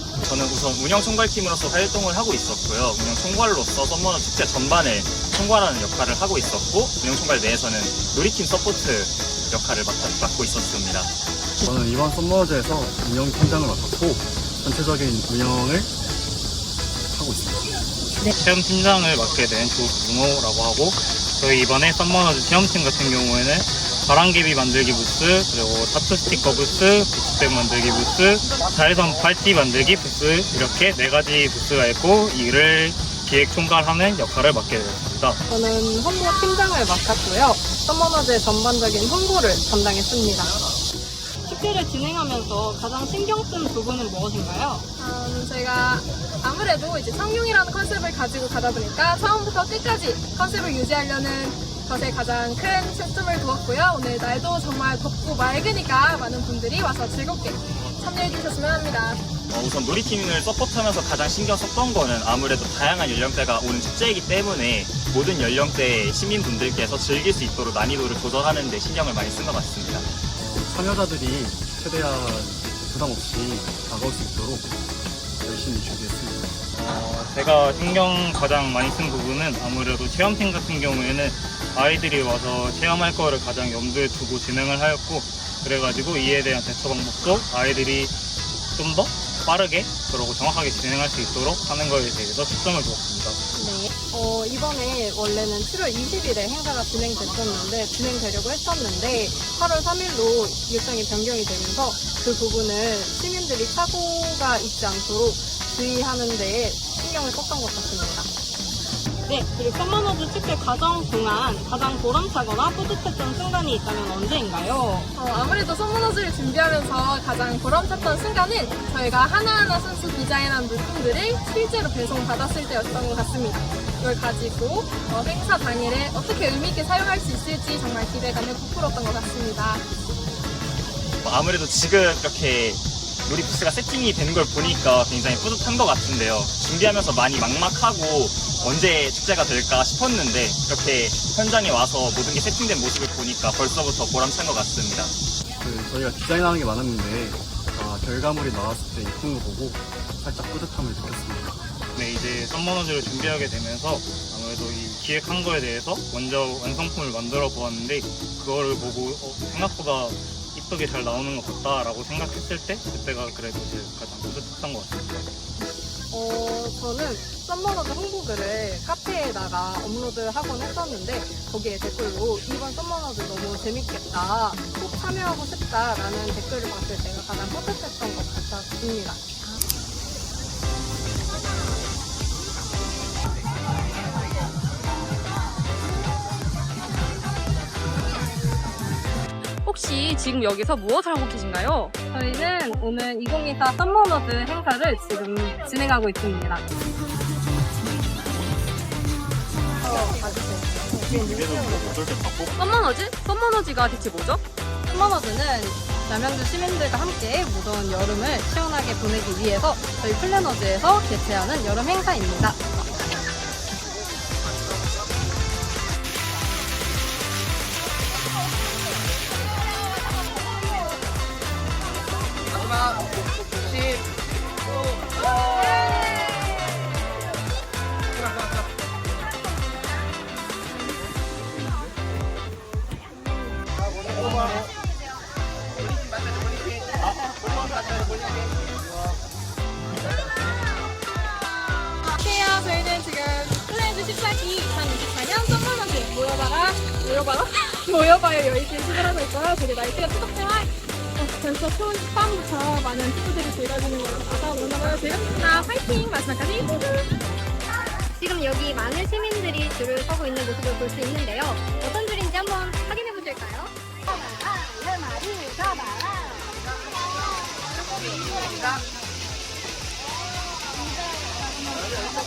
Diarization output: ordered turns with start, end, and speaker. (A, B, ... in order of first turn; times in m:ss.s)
0:00.2-0:11.1 A
0:11.6-0:15.9 B
0:17.1-0:18.3 B
0:18.3-0:35.4 C
0:35.5-0:40.6 D
0:41.4-0:44.8 D
0:45.0-0:59.2 E
0:59.5-1:10.1 A
1:10.4-1:14.7 B
1:15.4-1:16.6 B
1:16.8-1:28.2 C
1:28.7-1:33.4 C
1:33.6-1:48.3 D
1:49.3-1:55.1 D
1:55.2-2:09.8 E
2:11.2-2:25.1 A
2:25.6-2:31.6 B
2:32.0-2:45.3 C
2:46.1-2:59.2 D
3:09.6-3:11.9 F
3:12.1-3:16.6 D
3:19.8-3:22.0 D
3:22.7-3:24.4 F
3:23.3-3:23.9 D
3:24.9-3:32.6 D
4:02.2-4:17.0 E
4:18.2-4:23.7 G
4:24.3-4:26.3 G
4:28.1-4:28.6 G